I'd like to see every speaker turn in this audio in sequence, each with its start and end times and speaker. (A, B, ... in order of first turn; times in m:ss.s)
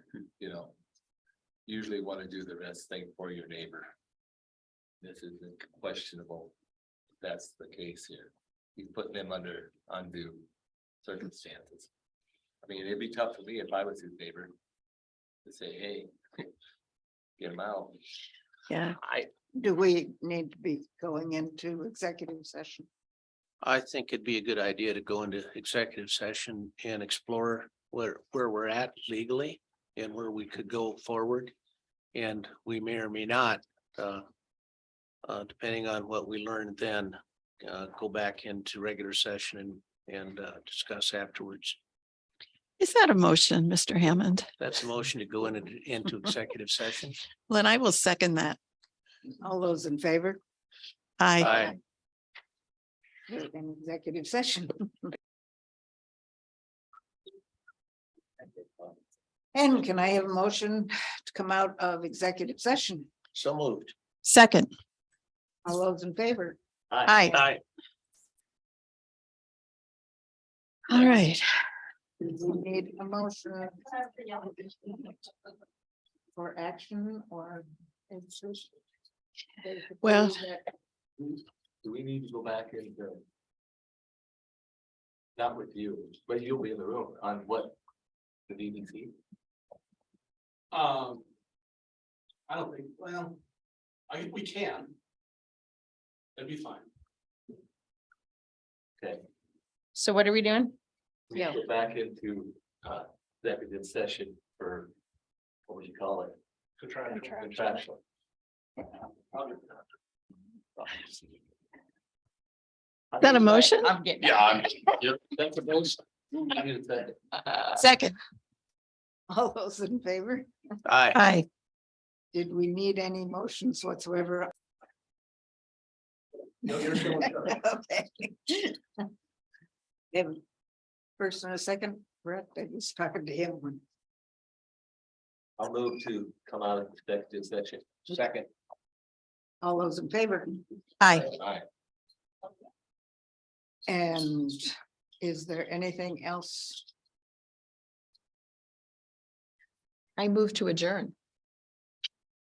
0:00.4-0:00.8 A
0:01.7-0:03.9 A
0:05.0-0:06.5 A
0:07.2-0:10.5 A
0:11.0-0:11.9 A
0:12.6-0:14.5 A
0:15.4-0:16.5 A
0:17.4-0:18.0 A
0:18.7-0:19.0 B
0:19.0-0:19.3 A
0:19.5-0:22.9 C
0:23.6-0:31.5 D
0:32.1-0:34.2 D
0:35.2-0:41.8 D
0:42.8-0:44.5 B
0:44.6-0:47.2 D
0:47.5-0:48.6 B
0:49.4-0:50.4 C
0:51.2-0:51.7 B
0:51.4-0:51.7 D
0:53.3-0:55.1 C
0:59.5-1:03.1 C
1:03.3-1:03.9 D
1:04.2-1:04.7 B
1:05.6-1:06.6 C
1:06.9-1:07.4 A
1:07.0-1:07.4 B
1:07.3-1:07.6 D
1:10.9-1:11.5 B
1:12.2-1:15.2 C
1:16.3-1:18.7 C
1:19.6-1:20.6 C
1:20.0-1:20.4 B
1:21.8-1:23.2 A
1:25.4-1:27.8 A
1:28.5-1:29.1 A
1:30.7-1:31.2 E
1:32.5-1:33.4 E
1:34.1-1:34.9 E
1:36.4-1:36.9 E
1:39.0-1:39.2 A
1:40.0-1:40.8 F
1:41.3-1:44.9 A
1:45.7-1:46.4 A
1:46.8-1:47.6 E
1:47.4-1:48.0 A
1:49.3-1:49.8 A
1:50.8-1:51.2 A
1:53.1-1:57.8 A
1:53.2-1:53.9 B
1:54.0-1:54.6 F
1:57.8-1:58.2 B
1:59.3-2:00.5 C
2:00.9-2:01.2 D
2:01.1-2:01.5 B
2:02.3-2:04.5 C
2:06.7-2:08.8 C
2:10.1-2:10.4 C
2:11.2-2:13.8 C
2:15.6-2:18.5 A
2:19.6-2:20.6 C
2:21.0-2:21.3 B
2:21.2-2:21.6 A
2:23.9-2:26.9 C
2:30.2-2:31.2 F